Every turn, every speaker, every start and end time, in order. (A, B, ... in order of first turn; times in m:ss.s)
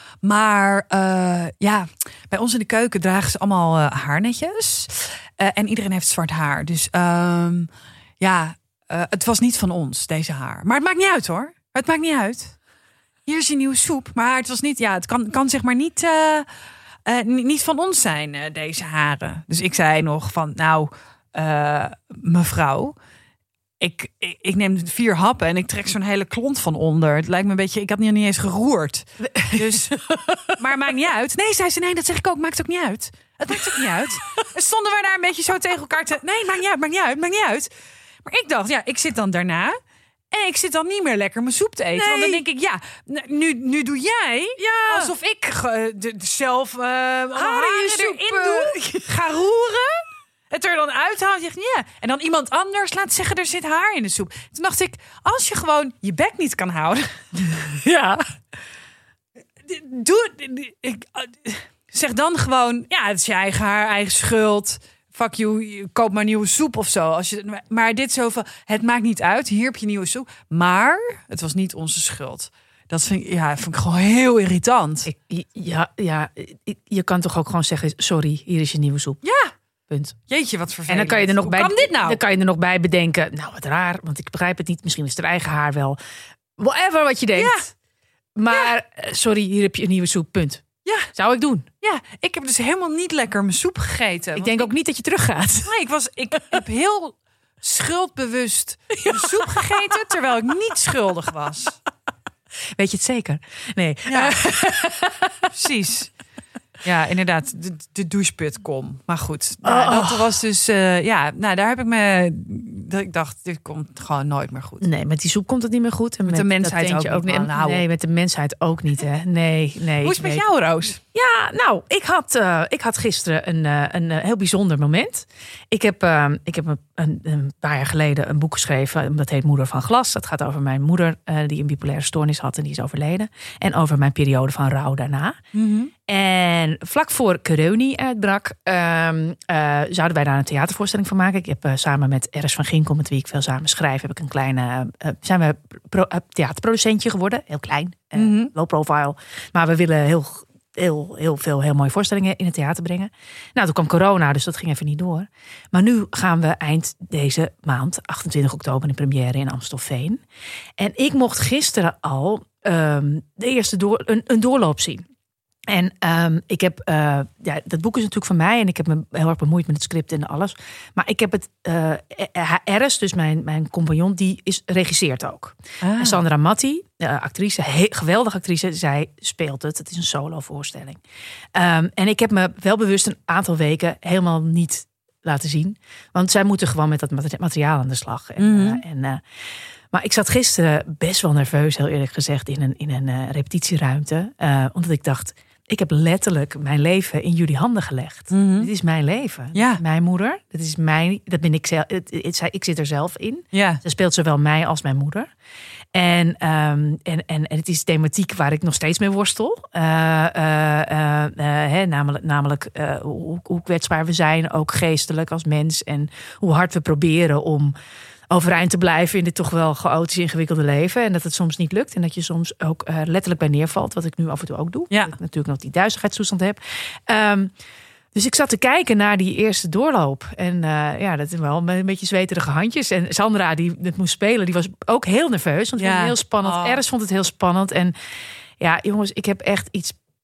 0:00.2-0:12.6 A
0:13.3-0:16.5 A
0:17.1-0:23.0 A
0:23.8-0:37.7 A
0:29.3-0:30.6 B
0:38.2-0:39.8 A
0:40.3-0:57.6 A
0:42.0-0:42.4 B
0:44.6-0:45.1 B
0:47.4-0:49.2 B
0:57.8-0:58.2 B
0:59.6-1:15.1 A
1:15.1-1:19.2 B
1:19.2-1:19.5 A
1:19.9-1:20.2 B
1:20.3-1:22.2 A
1:20.9-1:26.0 B
1:26.6-1:27.7 B
1:27.3-1:27.7 A
1:28.4-1:31.7 B
1:30.8-1:31.1 A
1:31.8-1:34.7 A
1:34.4-1:35.7 B
1:35.6-1:41.8 A
1:39.0-1:39.8 B
1:42.8-1:45.5 B
1:44.1-1:44.4 A
1:45.5-1:46.2 A
1:46.8-1:54.9 A
1:49.6-1:50.4 B
1:54.8-2:00.5 B
1:56.2-1:57.9 A
2:00.0-2:01.0 A
2:01.1-2:15.4 B
2:15.5-2:15.9 A
2:16.1-2:40.2 B
2:28.2-2:28.5 A
2:40.8-2:45.0 B
2:45.7-3:01.0 B
2:55.8-2:56.2 A
3:01.6-3:25.3 B
3:08.4-3:08.8 A
3:18.3-3:18.7 A
3:19.5-3:19.8 A
3:23.5-3:23.8 A
3:25.9-3:37.8 B
3:38.3-3:47.5 B
3:44.9-3:45.2 A
3:48.1-3:58.0 B
3:55.8-3:56.8 A
3:58.6-4:00.0 B